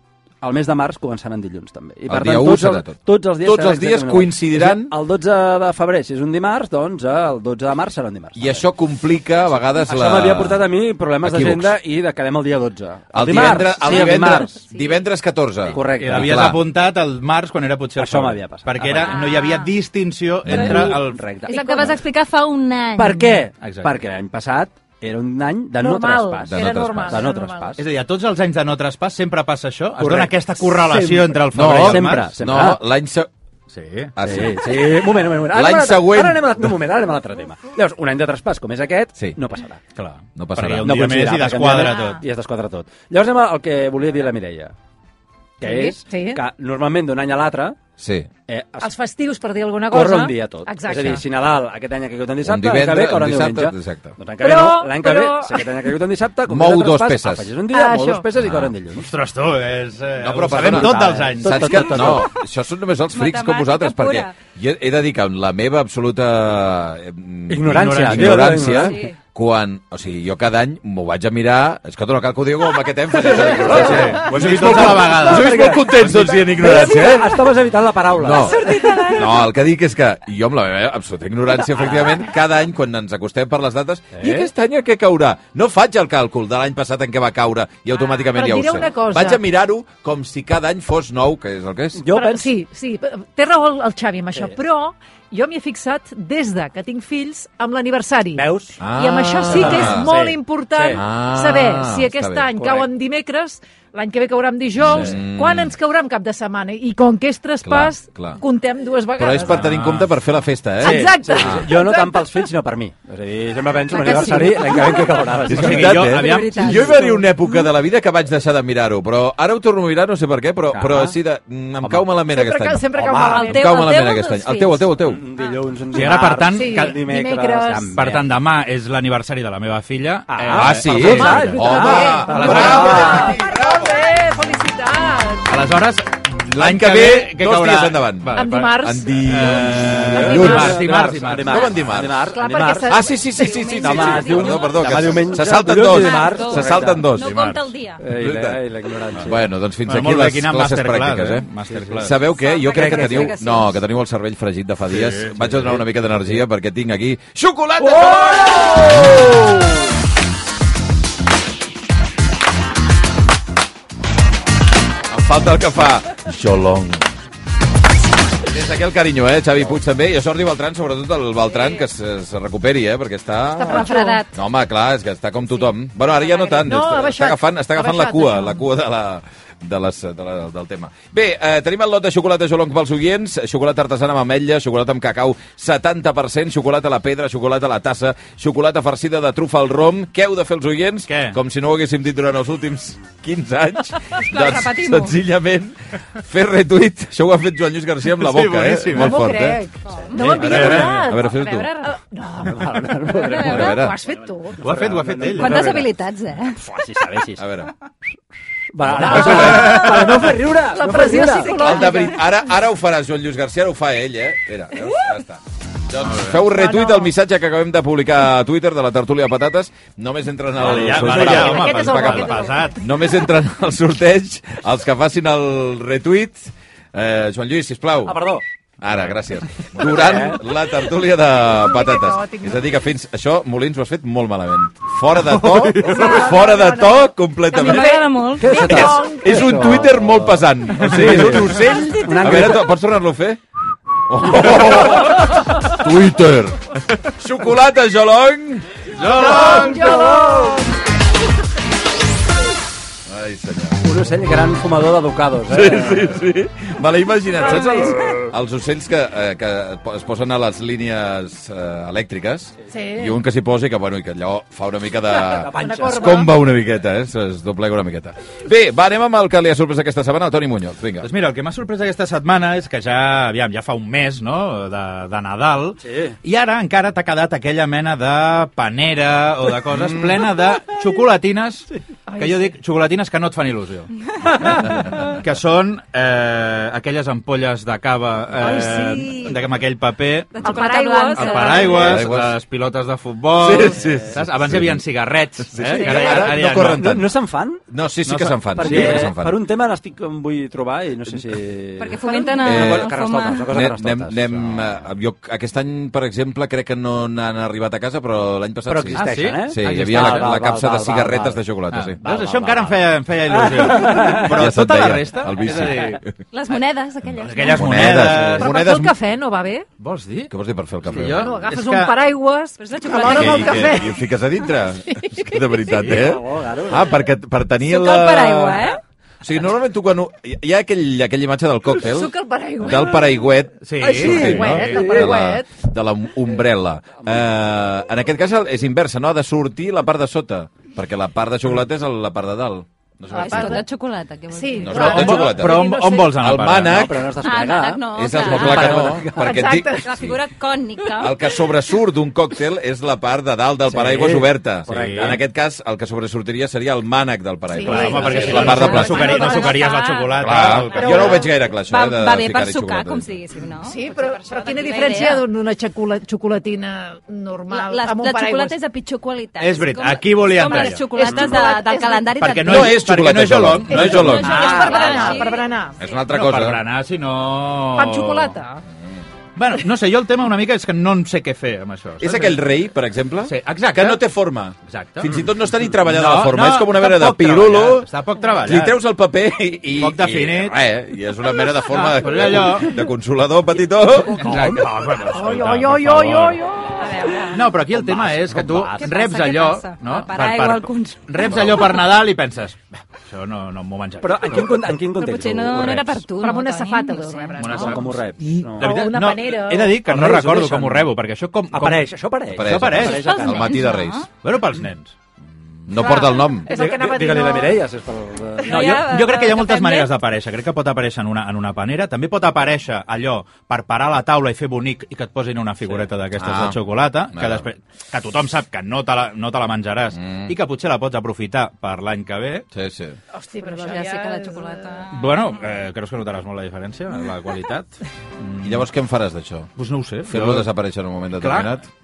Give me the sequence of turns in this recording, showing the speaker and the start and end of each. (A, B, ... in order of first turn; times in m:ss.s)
0:00.4-0:08.6 A
0:02.1-0:05.0 B
0:08.3-0:10.7 B
0:09.7-0:14.6 A
0:11.2-0:11.8 B
0:13.1-0:16.6 B
0:15.7-0:16.6 A
0:15.9-0:21.2 C
0:18.0-0:19.3 A
0:19.0-0:19.7 D
0:20.4-0:21.0 B
0:20.5-0:21.9 A
0:21.4-0:22.0 E
0:21.4-0:23.4 D
0:23.0-0:27.8 A
0:23.6-0:24.0 C
0:25.8-0:27.7 E
0:26.5-0:27.3 B
0:27.8-0:32.3 C
0:30.0-0:32.8 A
0:31.5-0:33.3 B
0:33.7-0:34.1 C
0:34.2-0:36.6 B
0:34.2-0:39.8 A
0:40.0-0:42.2 C
0:40.4-0:41.0 B
0:40.8-0:44.7 A
0:41.8-0:42.2 D
0:45.6-0:47.8 A
0:45.6-0:46.4 E
0:48.0-0:48.3 B
0:48.5-0:48.9 A
0:48.8-0:51.2 E
0:49.9-0:59.1 A
0:52.4-0:54.2 B
0:54.4-0:55.9 E
0:56.4-0:57.5 B
0:57.7-0:58.3 E
0:58.3-0:58.7 B
0:59.0-1:02.2 C
1:00.2-1:17.4 B
1:00.5-1:02.3 A
1:03.1-1:04.4 D
1:07.5-1:09.1 A
1:07.6-1:08.7 C
1:08.7-1:09.2 D
1:13.1-1:18.8 A
1:13.8-1:16.4 C
1:16.6-1:17.4 D
1:18.1-1:32.0 B
1:18.3-1:19.5 D
1:24.1-1:24.5 A
1:28.3-1:29.4 E
1:32.0-1:32.5 A
1:32.1-1:49.7 E
1:38.4-1:38.8 A
1:38.8-1:40.1 B
1:39.5-1:41.0 A
1:40.9-1:42.5 B
1:42.6-1:42.9 A
1:44.8-1:45.7 B
1:47.6-1:48.4 B
1:49.2-1:51.7 B
1:49.6-1:50.1 C
1:50.8-1:52.5 E
1:50.8-1:56.2 A
1:53.9-1:55.4 E
1:54.0-1:55.2 D
1:55.4-2:05.2 B
1:55.5-1:57.0 C
1:56.0-1:57.2 D
2:00.7-2:01.2 A
2:02.3-2:04.8 E
2:02.9-2:03.5 A
2:03.2-2:04.6 D
2:05.1-2:08.3 A
2:05.9-2:06.9 C
2:06.5-2:08.0 E
2:07.9-2:13.1 C
2:10.3-2:13.4 A
2:10.5-2:14.2 B
2:11.0-2:15.6 E
2:15.5-2:21.7 C
2:16.5-2:22.3 B
2:18.3-2:20.7 E
2:20.1-2:23.0 A
2:22.3-2:24.1 E
2:22.8-2:27.4 B
2:23.4-2:28.0 D
2:23.8-2:27.1 A
2:27.2-2:27.6 C
2:28.0-2:29.5 A
2:28.1-2:28.6 B
2:29.2-2:39.4 B
2:29.8-2:32.1 C
2:31.7-2:32.0 A
2:32.4-2:33.8 D
2:32.7-2:33.3 A
2:34.9-2:35.7 C
2:37.8-2:39.8 A
2:45.1-2:47.1 B
2:48.4-3:19.6 B
2:53.5-2:54.2 E
2:53.7-2:54.4 D
2:56.3-2:56.6 D
2:56.6-2:58.6 E
3:11.1-3:11.4 C
3:14.1-3:15.2 D
3:18.1-3:19.2 C
3:18.9-3:24.8 E
3:19.9-3:20.7 D
3:20.1-3:20.9 A
3:20.3-3:21.7 B
3:20.4-3:21.1 C
3:21.2-3:21.9 D
3:22.3-3:23.7 A
3:23.1-3:23.9 D
3:23.4-3:24.0 B
3:24.6-3:25.7 C
3:24.6-3:25.9 A
3:25.4-3:26.6 D
3:26.6-3:27.4 A
3:27.4-3:27.7 B
3:28.7-3:31.9 A
3:28.8-3:30.3 B
3:29.1-3:29.7 C
3:29.3-3:29.9 E
3:30.6-3:32.4 E
3:31.4-3:48.2 B
3:36.1-3:36.4 C
3:36.4-3:37.1 E
3:40.6-3:42.8 C
3:40.6-3:41.6 A
3:41.1-3:42.7 E
3:48.0-3:48.4 A
3:48.8-4:03.4 B
3:49.8-3:50.4 A
3:51.3-3:52.7 E
3:55.3-3:56.2 C
3:55.8-3:59.7 E
3:57.5-3:58.6 D
3:58.4-4:02.7 A
4:00.8-4:01.7 C
4:04.0-4:09.5 B
4:04.3-4:04.9 A
4:09.0-4:09.8 C
4:09.0-4:10.6 A
4:09.0-4:10.7 E
4:13.0-4:13.8 B
4:13.8-4:16.1 A
4:15.4-4:31.1 B
4:17.4-4:17.9 E
4:22.7-4:23.2 E
4:25.2-4:26.3 A
4:25.5-4:26.4 E
4:31.0-4:57.0 C
4:35.8-4:36.2 A
4:39.7-4:40.1 B
4:42.1-4:42.5 E
4:48.4-4:49.4 E
4:48.5-4:49.0 D
4:50.3-4:51.9 D
4:50.4-4:51.9 E
4:51.7-4:52.4 B
4:53.4-4:54.8 B
4:53.6-4:54.2 A
4:55.5-4:57.1 B
4:55.8-4:57.6 A
4:57.7-4:59.4 B
4:58.1-4:59.1 C
4:58.5-5:04.8 A
5:01.8-5:03.5 D
5:02.0-5:02.4 E
5:02.4-5:02.9 B
5:03.5-5:12.0 B
5:08.7-5:11.4 A
5:08.9-5:10.4 C
5:11.7-5:16.0 C
5:12.0-5:14.4 A
5:14.0-5:16.1 B
5:16.3-5:17.9 D
5:17.2-5:18.9 C
5:17.5-5:18.7 B
5:18.4-5:19.7 E
5:19.8-5:20.3 C
5:20.3-5:21.3 B
5:20.9-5:22.0 C
5:21.2-5:24.0 E
5:22.6-5:24.0 D
5:23.0-5:43.6 B
5:24.9-5:25.4 E
5:25.7-5:26.1 C
5:25.8-5:26.9 A
5:27.6-5:28.8 D
5:31.8-5:33.3 E
5:33.6-5:34.6 C
5:33.8-5:35.1 A
5:33.8-5:35.5 E
5:43.1-5:43.6 E
5:43.1-5:45.2 D
5:44.3-5:46.2 E
5:44.6-5:45.6 B
5:44.7-5:46.9 C
5:46.2-5:47.1 B
5:46.6-5:49.3 A
5:47.2-5:48.9 D
5:47.9-5:50.2 B
5:49.1-5:50.2 E
5:49.8-5:51.2 D
5:50.9-5:59.3 B
5:53.6-5:55.2 A
5:54.7-5:55.2 C
5:57.5-5:59.6 E
5:57.6-6:01.1 C
5:57.8-5:58.8 A
5:58.1-6:05.2 D
6:00.2-6:03.1 B
6:00.7-6:01.3 E
6:03.6-6:08.6 E
6:07.5-6:12.8 D
6:09.4-6:10.9 C
6:10.5-6:12.2 E
6:11.0-6:11.4 A
6:12.2-6:14.7 C
6:12.4-6:14.5 B
6:13.7-6:15.8 E
6:14.1-6:15.4 D
6:14.3-6:15.3 A
6:15.8-6:16.6 B
6:16.0-6:18.4 C
6:17.7-6:18.6 E
6:19.4-6:22.4 C
6:22.0-6:34.4 B
6:23.2-6:24.0 C
6:24.6-6:25.2 C
6:25.8-6:28.8 C
6:29.8-6:30.6 C
6:31.6-6:32.8 C
6:34.0-6:36.5 C
6:34.1-6:34.7 A
6:35.1-6:37.2 E
6:36.8-6:37.4 D
6:37.3-6:44.7 C
6:37.6-6:39.0 A
6:38.8-6:41.8 D
6:44.0-6:46.0 A
6:44.9-6:47.7 D
6:46.2-6:48.0 E
6:47.4-6:53.2 C
6:47.5-6:48.7 A
6:48.6-6:49.8 E
6:49.8-6:50.9 A
6:51.5-6:53.7 A
6:52.3-6:54.0 B
6:52.8-6:54.1 D
6:54.1-6:55.0 C
6:55.6-6:56.5 B
6:55.8-6:57.6 E
6:56.5-6:58.9 A
6:58.4-6:59.9 D
6:58.5-7:12.4 C
7:06.2-7:06.6 B
7:07.1-7:07.4 B
7:10.0-7:10.3 B
7:12.5-7:13.0 B
7:13.1-7:14.9 E
7:13.4-7:15.2 D
7:14.9-7:18.6 C
7:18.4-7:19.5 B
7:19.6-7:20.5 C
7:20.0-7:21.7 B
7:21.2-7:21.6 C